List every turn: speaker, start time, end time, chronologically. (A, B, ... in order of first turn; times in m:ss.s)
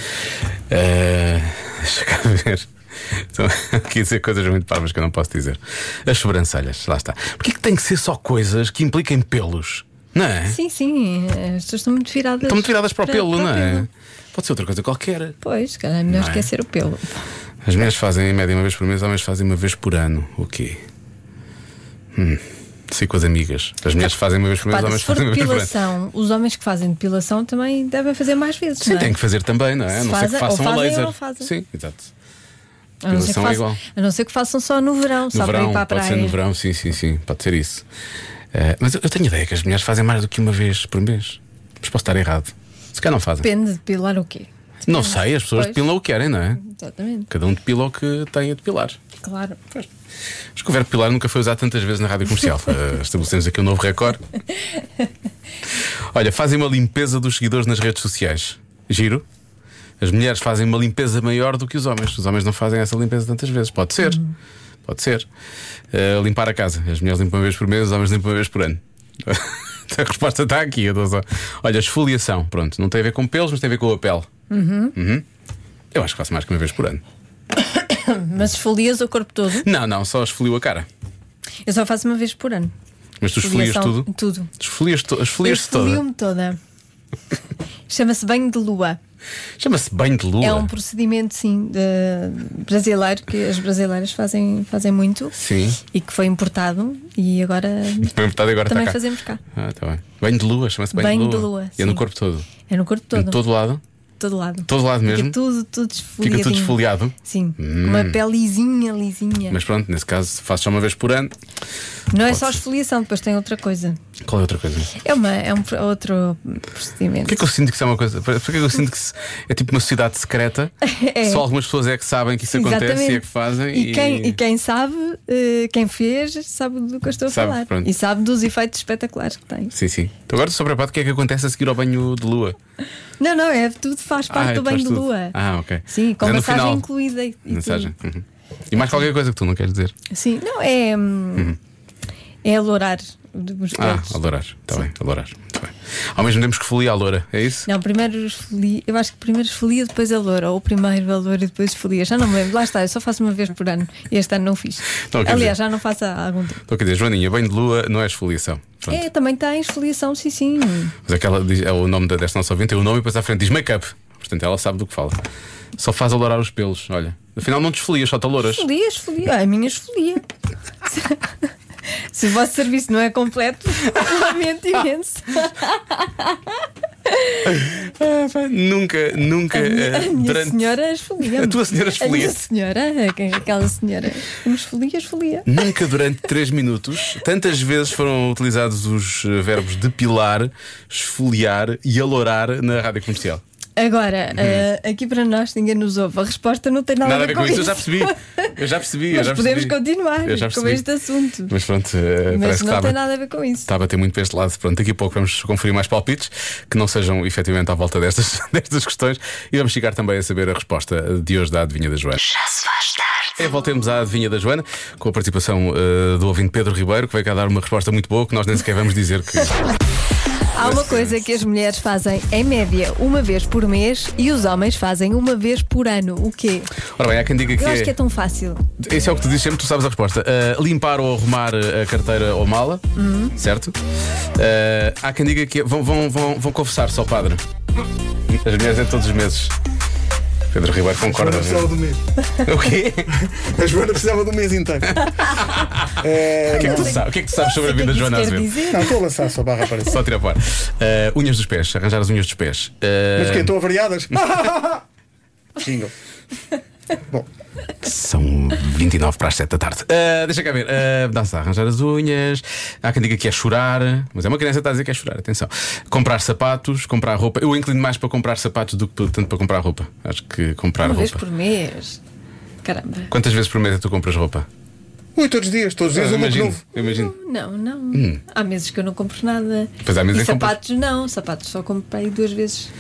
0:00.7-0:10.6 A
0:10.5-0:13.9 B
0:12.4-0:15.4 A
0:15.4-0:17.2 B
0:16.1-0:16.5 A
0:17.6-0:20.8 A
0:22.1-0:25.8 A
0:24.7-0:29.1 B
0:28.8-0:32.1 A
0:29.9-0:31.5 B
0:33.0-0:36.4 B
0:33.1-0:33.8 A
0:35.3-0:37.8 A
0:38.5-0:43.5 A
0:43.4-0:45.8 B
0:44.9-0:46.6 A
0:46.6-0:47.3 B
0:47.3-0:49.0 A
0:49.2-0:49.6 B
0:50.6-0:54.2 A
0:56.1-0:59.2 A
1:00.0-1:04.2 A
1:04.8-1:05.2 A
1:05.9-1:14.3 A
1:14.5-1:15.0 B
1:14.9-1:15.2 A
1:15.9-1:17.0 A
1:17.7-1:19.6 B
1:19.6-1:20.9 A
1:21.6-1:22.7 B
1:23.2-1:26.0 A
1:23.4-1:24.5 B
1:25.4-1:26.6 B
1:27.9-1:29.0 B
1:29.6-1:30.7 A
1:30.4-1:35.3 B
1:35.3-1:35.8 A
1:35.9-1:38.1 B
1:38.0-1:39.0 A
1:38.6-1:39.4 B
1:39.5-1:42.5 A
1:40.9-1:42.0 B
1:42.7-1:43.4 B
1:43.1-1:43.8 A
1:44.2-1:49.6 B
1:44.7-1:45.4 A
1:46.2-1:48.2 A
1:49.5-1:51.3 A
1:52.1-1:54.0 B
1:52.3-1:52.6 A
1:54.2-1:54.9 A
1:55.0-1:57.4 B
1:57.2-2:00.7 A
2:00.8-2:01.4 B
2:01.2-2:04.4 A
2:02.5-2:09.7 B
2:07.3-2:07.9 A
2:09.7-2:12.6 A
2:13.2-2:15.4 B
2:14.3-2:16.8 A
2:15.9-2:17.9 B
2:17.5-2:19.9 A
2:20.1-2:21.6 B
2:22.4-2:24.2 B
2:23.7-2:27.7 A
2:27.7-2:36.6 B
2:35.1-2:35.6 A
2:36.7-2:39.0 A
2:38.9-2:40.9 B
2:41.0-2:45.2 A
2:45.8-2:48.6 A
2:48.4-2:50.2 B
2:50.8-2:51.3 B
2:52.1-2:56.5 B
2:57.1-2:57.5 B
2:57.5-3:00.6 A
2:59.5-3:05.5 B
3:01.2-3:02.4 A
3:05.4-3:13.4 A
3:13.8-3:18.5 B
3:14.4-3:14.6 A
3:17.0-3:20.8 A
3:19.1-3:21.5 B
3:21.5-3:23.0 A
3:22.3-3:23.7 B
3:23.6-3:32.2 A
3:33.4-3:39.7 A
3:40.5-3:46.7 B
3:40.6-3:41.2 A
3:47.0-3:47.9 A
3:47.6-3:48.6 B
3:48.8-3:53.8 A
3:53.0-3:53.3 B
3:54.4-3:57.4 A
3:58.3-3:59.5 A
4:00.5-4:01.7 A
4:01.0-4:02.0 C
4:02.4-4:03.1 A
4:03.1-4:05.3 C
4:05.3-4:05.9 A
4:06.0-4:07.0 C
4:06.6-4:08.6 A
4:06.6-4:08.9 B
4:08.7-4:10.0 C
4:09.8-4:13.6 A
4:13.2-4:14.8 C
4:15.6-4:15.9 C
4:17.8-4:31.2 A
4:30.8-4:32.0 B
4:32.6-4:33.1 B
4:33.1-4:34.4 A
4:35.2-4:36.6 C
4:35.9-4:37.1 A
4:36.8-4:42.7 B
4:37.9-4:38.2 A
4:39.8-4:40.5 A